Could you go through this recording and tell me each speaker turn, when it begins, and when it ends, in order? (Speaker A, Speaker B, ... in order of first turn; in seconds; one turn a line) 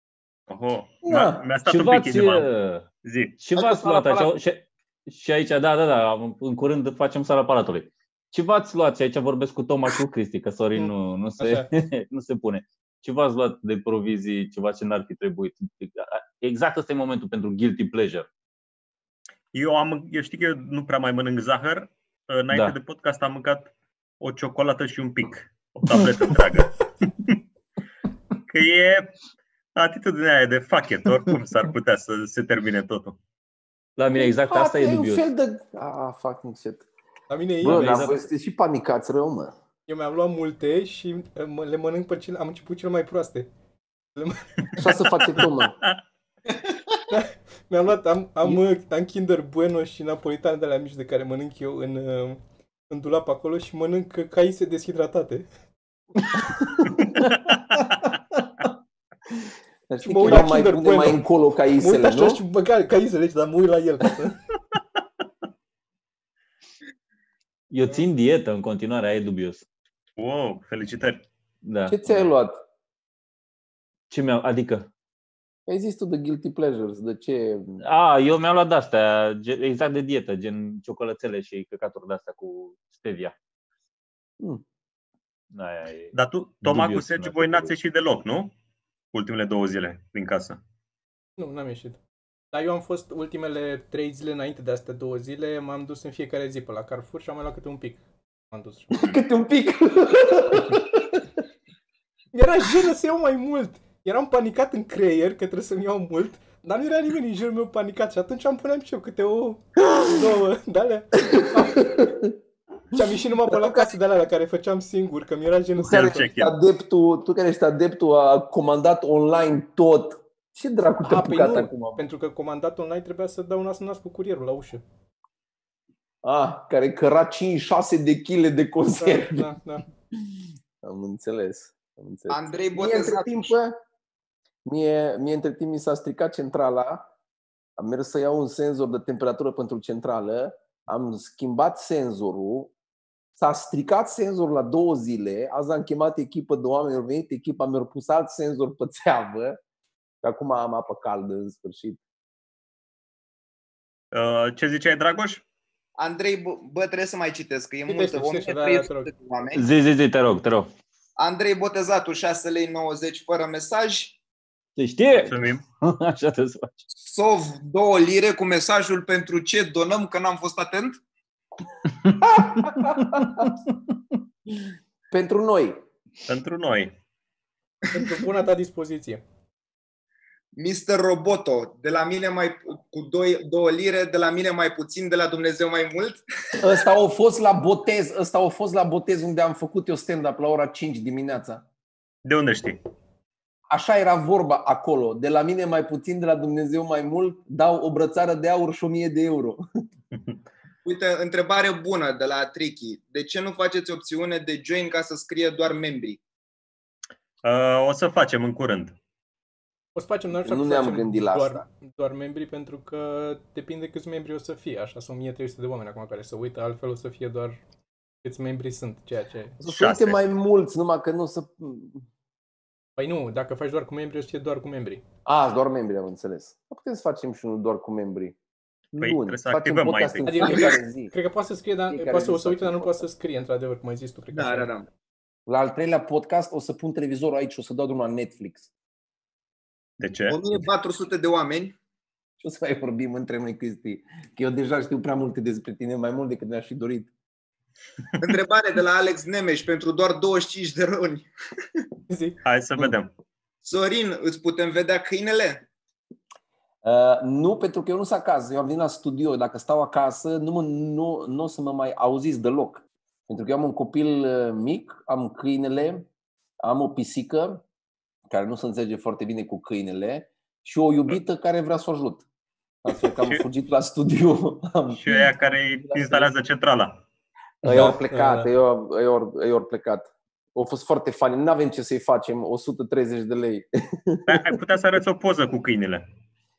Speaker A: 0.5-2.5
Speaker B: 1.0-1.4
Speaker C: 1.7-2.9
Speaker A: 3.0-3.4
Speaker C: 3.4-18.3
Speaker D: 3.6-4.3
Speaker E: 10.8-11.7
Speaker A: 19.5-27.3
Speaker A: 28.5-29.1
Speaker A: 29.8-33.2
Speaker C: 34.0-35.3
Speaker B: 34.1-36.9
Speaker E: 37.3-38.1
Speaker B: 37.6-39.5
Speaker C: 37.6-38.2
Speaker E: 39.9-43.5
Speaker E: 44.2-44.8
Speaker B: 44.8-45.8
Speaker E: 47.1-55.5
Speaker A: 57.0-57.5
Speaker B: 59.9-62.4
Speaker E: 60.0-61.2
Speaker E: 61.8-64.4
Speaker C: 67.7-69.7
Speaker A: 70.2-71.3
Speaker C: 71.6-72.2
Speaker B: 71.9-72.6
Speaker C: 74.1-74.9
Speaker B: 75.7-77.8
Speaker C: 77.8-83.3
Speaker C: 85.5-87.7
Speaker A: 86.1-88.5
Speaker A: 89.1-90.6
Speaker E: 91.4-92.0
Speaker E: 92.5-99.0
Speaker B: 98.9-101.2
Speaker E: 102.3-112.1
Speaker B: 111.6-112.3
Speaker E: 112.9-116.2
Speaker B: 113.5-114.0
Speaker A: 115.8-116.5
Speaker B: 115.9-122.0
Speaker E: 121.0-124.8
Speaker B: 126.2-129.5
Speaker E: 129.0-129.9
Speaker B: 130.8-133.8
Speaker D: 132.3-133.5
Speaker B: 134.7-137.1
Speaker B: 137.8-142.7
Speaker B: 143.3-149.6
Speaker B: 150.2-152.0
Speaker A: 154.1-155.4
Speaker D: 156.0-159.6
Speaker E: 157.9-159.1
Speaker C: 159.6-160.7
Speaker D: 161.2-164.2
Speaker C: 164.8-166.7
Speaker A: 165.1-165.6
Speaker D: 167.0-171.0
Speaker B: 172.2-173.5
Speaker B: 175.1-175.8
Speaker A: 176.3-176.9
Speaker E: 177.9-179.2
Speaker D: 180.6-186.7
Speaker B: 186.6-191.6
Speaker A: 192.2-192.8
Speaker B: 193.7-199.6
Speaker D: 200.8-206.2
Speaker A: 207.4-209.0
Speaker E: 209.9-217.6
Speaker B: 210.4-211.7
Speaker E: 218.2-219.6
Speaker B: 219.6-222.1
Speaker A: 219.7-220.2
Speaker E: 223.0-225.0
Speaker B: 225.3-228.3
Speaker B: 228.9-231.1
Speaker A: 229.0-230.4
Speaker E: 230.3-234.7
Speaker B: 231.9-233.0
Speaker D: 234.3-234.9
Speaker B: 235.5-238.7
Speaker A: 240.0-240.4
Speaker D: 240.3-241.8
Speaker B: 242.4-247.1
Speaker D: 248.2-251.3
Speaker E: 252.1-252.4
Speaker A: 252.4-253.1
Speaker D: 253.6-255.6
Speaker B: 256.8-266.1
Speaker B: 266.6-267.6
Speaker B: 268.3-272.2
Speaker B: 272.8-275.2
Speaker A: 274.9-277.0
Speaker B: 275.8-276.3
Speaker B: 277.6-284.6
Speaker E: 277.7-278.5
Speaker A: 284.3-286.1